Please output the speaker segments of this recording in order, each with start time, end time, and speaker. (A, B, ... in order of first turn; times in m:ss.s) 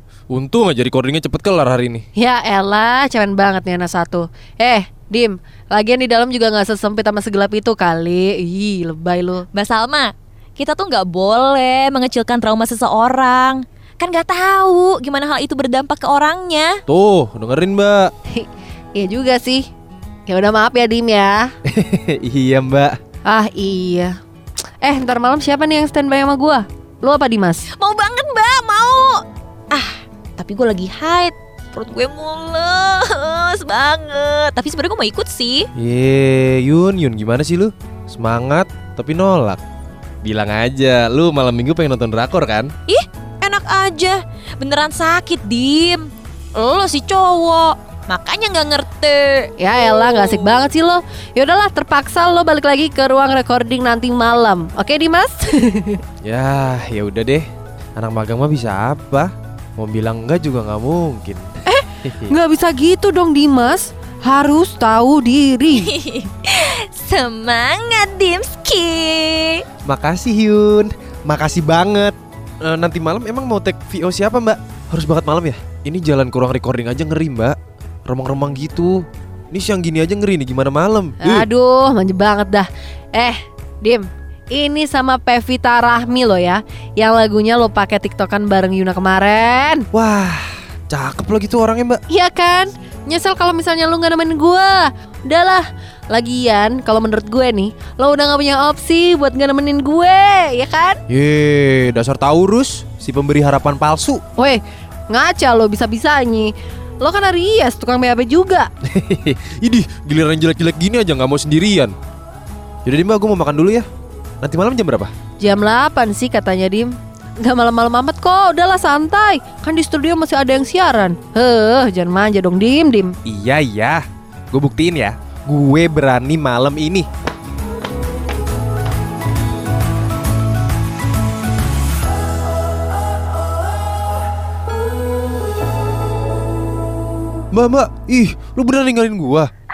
0:00.3-0:02.1 A
0:02.2-0:09.4 B
0:09.5-0:16.8 C
0:16.9-0:18.1 A
0:18.3-0:19.6 B
0:20.3-0:21.5 B
0:21.7-0:23.0 A
0:23.3-0:24.1 B
0:24.8-0:27.6 B
0:27.7-0:35.7 C
0:35.8-0:39.6 A
0:40.2-0:42.7 A
0:42.9-0:49.5 C
0:49.6-0:56.0 B
0:56.2-1:02.4 A
1:01.7-1:05.9 B
1:05.7-1:09.6 C
1:09.8-1:17.6 A
1:18.1-1:21.5 A
1:21.2-1:29.9 B
1:29.9-1:32.0 A
1:32.1-1:41.0 B
1:41.1-1:44.2 A
1:44.4-1:48.7 B
1:48.9-1:51.9 A
1:52.8-1:53.9 A
1:54.4-1:55.1 A
1:55.4-1:56.9 B
1:57.4-2:03.1 B
2:03.3-2:04.0 A
2:04.5-2:07.1 A
2:17.5-2:19.5 A